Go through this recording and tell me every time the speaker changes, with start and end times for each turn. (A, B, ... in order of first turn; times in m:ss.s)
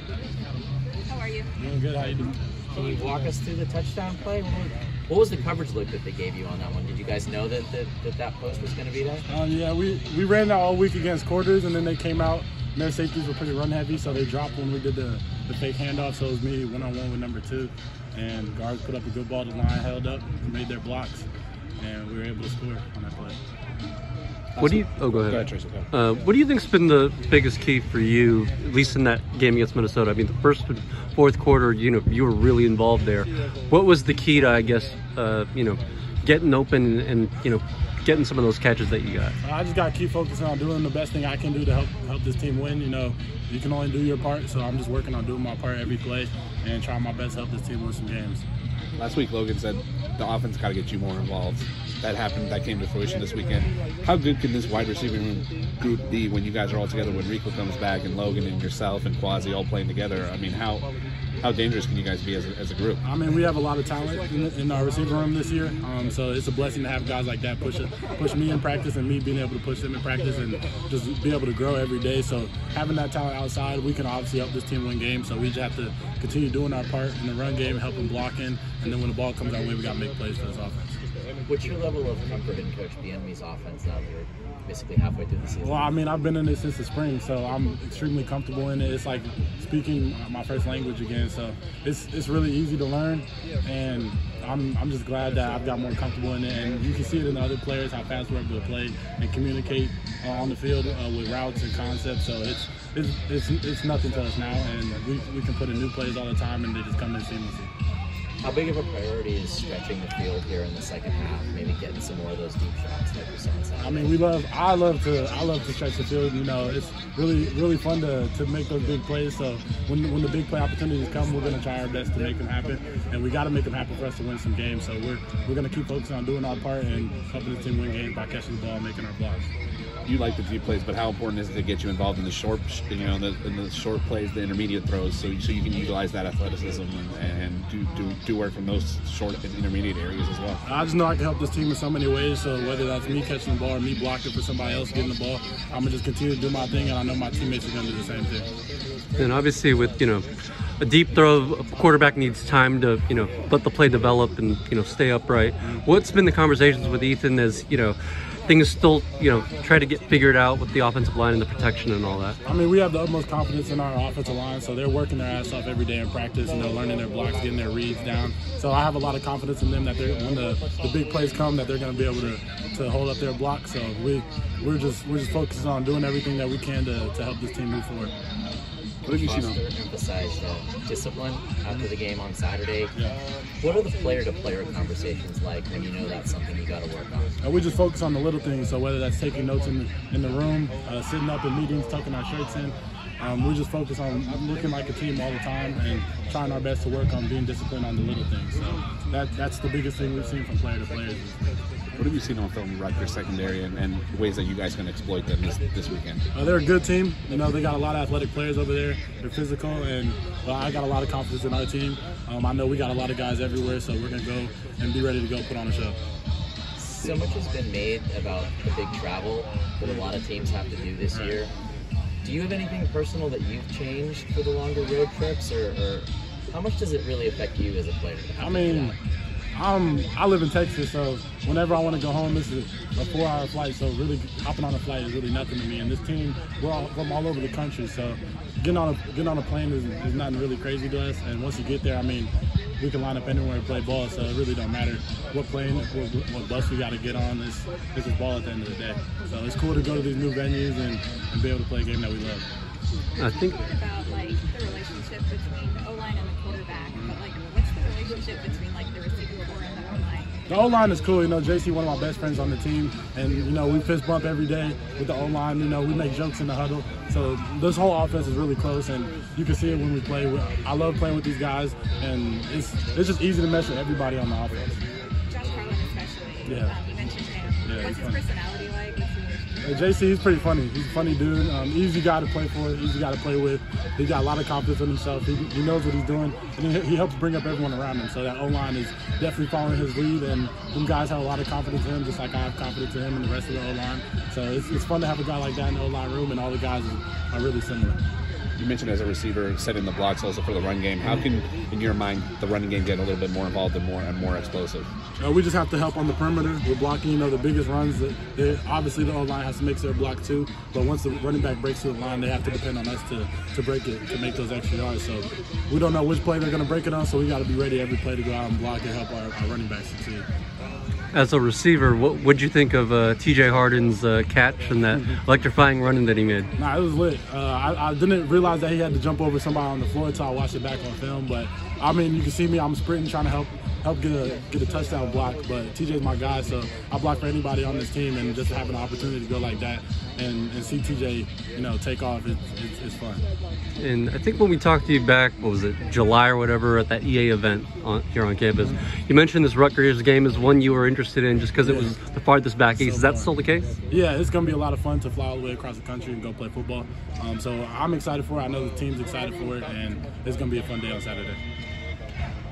0:01.0-0:01.5 A
0:01.6-0:02.4 B
0:02.7-0:09.3 C
0:09.3-0:21.3 B
0:21.8-0:23.4 B
0:24.6-0:25.9 D
0:24.6-0:25.4 E
0:25.9-0:39.4 E
0:39.4-0:48.4 B
0:49.0-1:00.9 D
1:01.4-1:03.0 D
1:03.0-1:21.0 B
1:21.5-1:25.9 C
1:25.6-1:47.7 B
1:48.4-1:54.2 C
1:53.8-2:09.4 B
2:10.1-2:20.6 D
2:20.6-2:28.5 B
2:29.2-2:30.3 E
2:30.8-2:42.4 E
2:42.5-2:58.1 B
2:59.0-2:59.6 D
2:59.2-3:02.9 C
3:03.6-3:07.4 C
3:07.4-3:21.4 B
3:22.0-3:26.3 D
3:26.3-3:36.0 B
3:36.8-3:41.5 C
3:41.1-3:41.4 B
3:42.2-3:49.0 C
3:48.4-3:49.0 B
3:49.5-4:12.4 B
4:13.2-4:13.6 E
4:13.3-4:20.3 A
4:20.5-4:34.8 B
4:35.3-4:39.9 A
4:36.5-4:36.7 B
4:37.6-4:38.2 B
4:39.6-4:58.0 B
4:58.6-5:04.9 D
5:05.2-5:20.3 B
5:21.1-5:26.5 E
5:26.6-5:43.2 B
5:43.8-5:53.7 E
5:51.6-5:51.9 B
5:52.7-5:53.3 B
5:53.9-6:01.4 B